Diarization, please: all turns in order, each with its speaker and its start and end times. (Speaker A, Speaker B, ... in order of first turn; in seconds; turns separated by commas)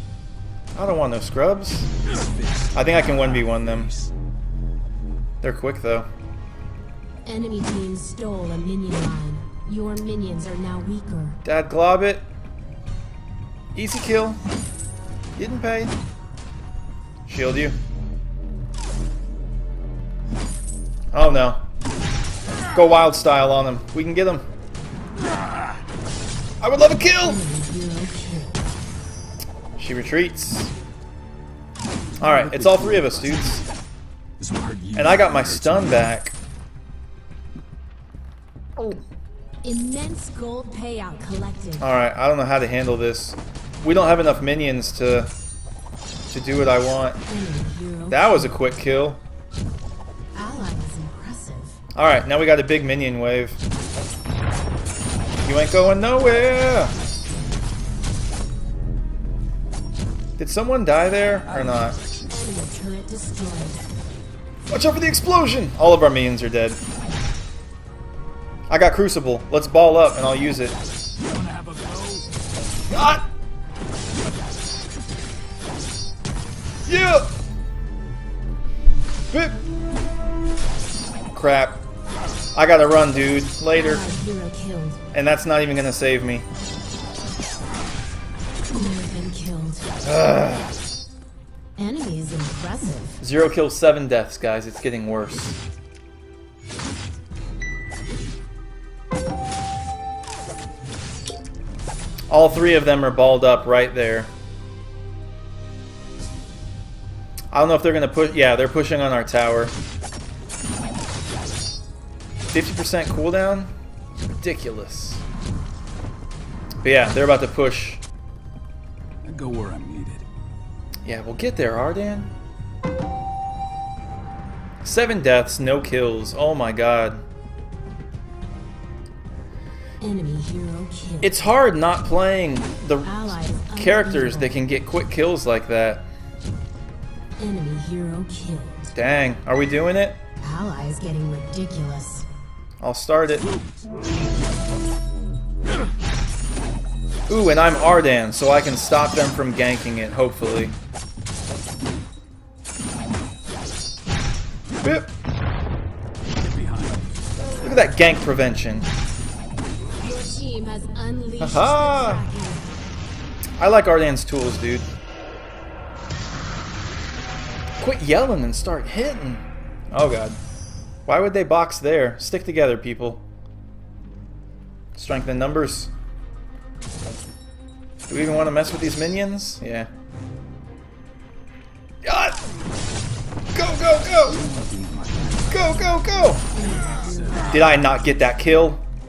Speaker A: 0.7-1.9, Speaker B: 2.0-4.1, Speaker A: 2.7-3.9, Speaker A: 5.4-6.1, Speaker C: 7.2-11.4, Speaker A: 11.4-12.2, Speaker A: 13.7-14.4, Speaker A: 15.4-15.9, Speaker A: 17.2-17.8, Speaker A: 21.1-21.6, Speaker A: 22.7-24.4, Speaker A: 26.6-27.4, Speaker C: 27.2-28.7, Speaker A: 29.8-30.7, Speaker B: 32.2-33.9, Speaker A: 32.2-33.6, Speaker B: 34.4-36.1, Speaker A: 35.0-36.3, Speaker C: 39.6-41.9, Speaker A: 41.8-45.3, Speaker A: 46.3-47.2, Speaker C: 47.3-48.5, Speaker A: 48.1-49.2, Speaker C: 50.3-51.8, Speaker A: 51.9-53.6, Speaker A: 55.4-56.9, Speaker A: 60.4-62.0, Speaker B: 61.4-62.4, Speaker C: 62.3-63.8, Speaker A: 64.7-66.8, Speaker A: 68.7-70.8, Speaker B: 71.2-72.3, Speaker A: 72.9-73.2, Speaker A: 76.8-77.3, Speaker A: 79.3-79.6, Speaker A: 81.3-81.8, Speaker A: 82.5-84.0, Speaker C: 83.8-85.0, Speaker A: 85.1-86.4, Speaker C: 88.7-89.9, Speaker A: 90.0-90.7, Speaker C: 91.8-93.2, Speaker A: 93.2-95.6, Speaker A: 102.3-104.3, Speaker A: 107.5-109.7, Speaker A: 112.5-113.7, Speaker A: 114.2-115.2, Speaker A: 116.8-118.0, Speaker B: 119.2-120.2, Speaker A: 121.0-122.3, Speaker A: 124.8-127.2, Speaker C: 130.0-131.3, Speaker A: 131.2-136.0, Speaker C: 133.0-134.6, Speaker C: 137.4-138.9, Speaker A: 138.9-140.2, Speaker C: 140.4-142.3, Speaker A: 142.8-143.5, Speaker A: 147.3-150.7, Speaker A: 154.8-155.1, Speaker B: 156.4-157.8, Speaker A: 157.6-158.9, Speaker C: 160.0-162.7, Speaker A: 161.4-162.2, Speaker A: 163.6-164.9, Speaker A: 167.8-170.4, Speaker A: 171.1-173.2, Speaker A: 174.9-175.9, Speaker A: 178.1-179.9, Speaker A: 182.0-182.4, Speaker A: 183.5-184.4, Speaker B: 184.2-187.7, Speaker A: 185.5-186.4, Speaker C: 186.5-187.6, Speaker A: 187.5-188.8